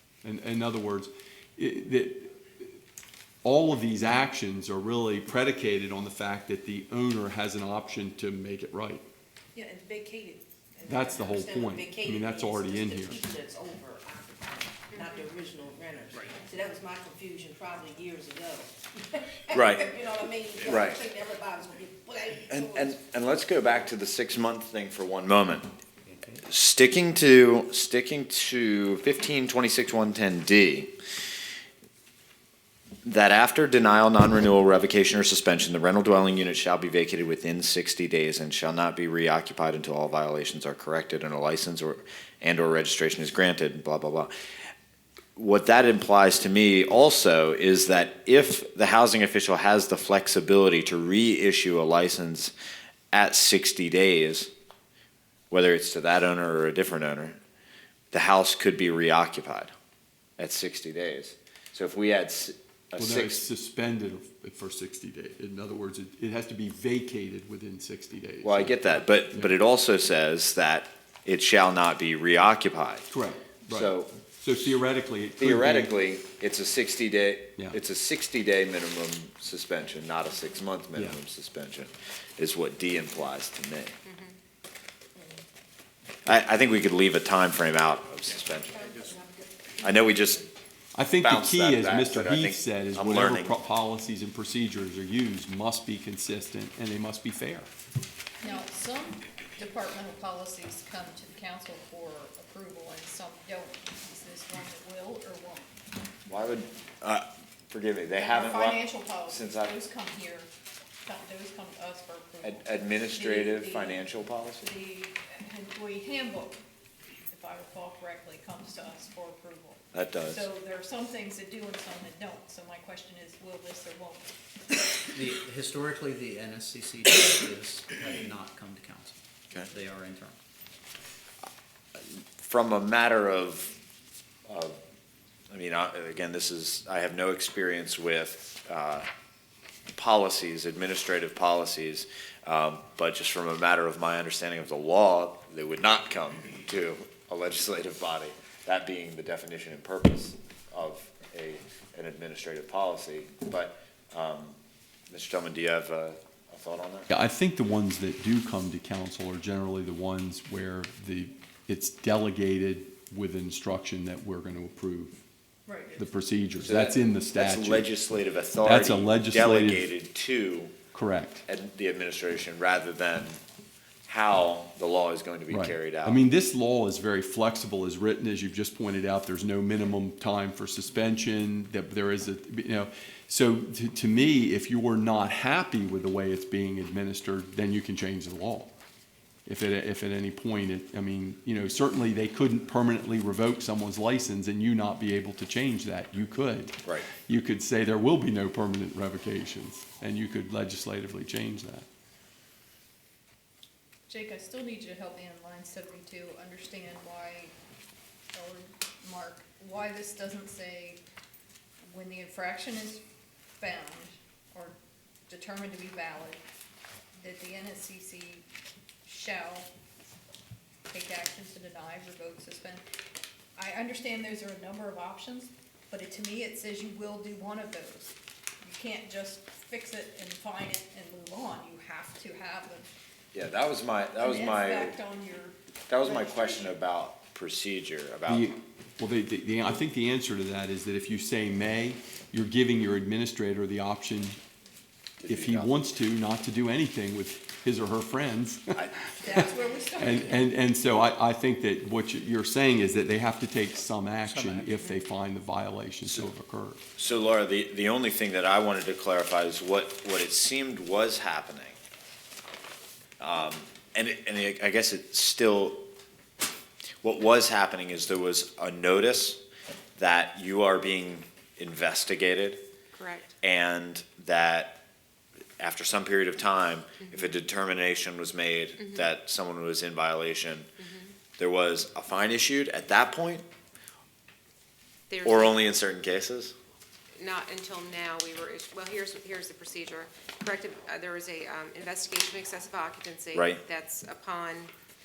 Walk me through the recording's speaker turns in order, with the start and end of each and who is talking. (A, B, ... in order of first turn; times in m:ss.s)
0:00.2-0:02.3 A
0:03.4-0:09.0 A
0:09.5-0:22.9 B
0:10.9-0:13.2 A
0:19.5-0:19.9 C
0:20.6-0:21.0 C
0:22.5-0:25.7 C
0:26.1-0:26.4 D
0:26.4-0:30.9 C
0:33.0-0:44.3 C
0:45.4-0:52.5 C
0:53.1-0:54.5 C
0:55.5-0:57.4 C
0:58.1-0:59.7 C
1:00.4-1:03.4 C
1:03.0-1:09.5 A
1:08.4-1:13.1 C
1:13.1-1:15.9 A
1:13.7-1:14.1 C
1:15.4-1:23.9 C
1:24.0-1:24.4 E
1:25.2-1:25.4 B
1:26.2-1:28.8 C
1:28.6-1:30.5 B
1:29.8-1:30.4 C
1:30.9-1:37.7 A
1:31.2-1:33.6 C
1:38.4-1:45.8 F
1:46.3-1:49.8 C
1:48.2-1:50.5 F
1:51.0-1:54.0 F
1:52.4-1:54.7 C
1:54.6-1:56.6 F
1:57.3-2:04.3 F
1:59.9-2:00.4 C
2:05.1-2:10.4 D
2:12.4-2:13.7 C
2:14.5-2:14.8 C
2:15.5-2:19.1 C
2:19.9-2:34.6 C
2:35.1-2:37.1 C
2:37.1-2:45.2 A
2:45.6-2:46.1 F
2:46.0-2:47.9 A
2:46.6-2:50.7 C
2:48.6-2:49.9 A
2:50.9-2:51.4 A
2:51.5-2:53.4 C
2:54.1-2:56.2 C
2:55.5-3:08.7 A
3:09.4-3:21.8 A
3:24.1-3:27.5 F
3:28.3-3:31.0 F
3:31.9-3:33.0 F
3:33.6-3:34.7 F
3:35.3-3:36.4 F
3:37.2-3:38.4 F
3:39.0-3:39.7 F
3:40.9-3:42.8 F
3:43.6-3:52.9 F
3:53.3-3:54.9 C
3:54.2-3:56.7 F
3:55.9-3:58.6 C
3:58.3-4:04.4 A
4:05.2-4:05.8 C
4:05.2-4:08.7 A
4:09.2-4:10.5 F
4:10.0-4:16.8 A
4:14.3-4:14.6 D
4:17.0-4:21.8 C
4:23.2-4:25.8 C
4:27.0-4:29.4 C
4:30.0-4:32.6 C
4:32.9-4:33.3 E
4:33.4-4:34.8 C
4:35.6-4:40.7 C
4:37.0-4:37.3 E
4:38.8-4:39.1 E
4:40.8-4:41.1 E
4:41.4-4:43.4 C
4:45.1-4:45.6 E
4:45.2-4:46.5 C
4:47.2-4:54.7 E
4:53.3-4:53.6 C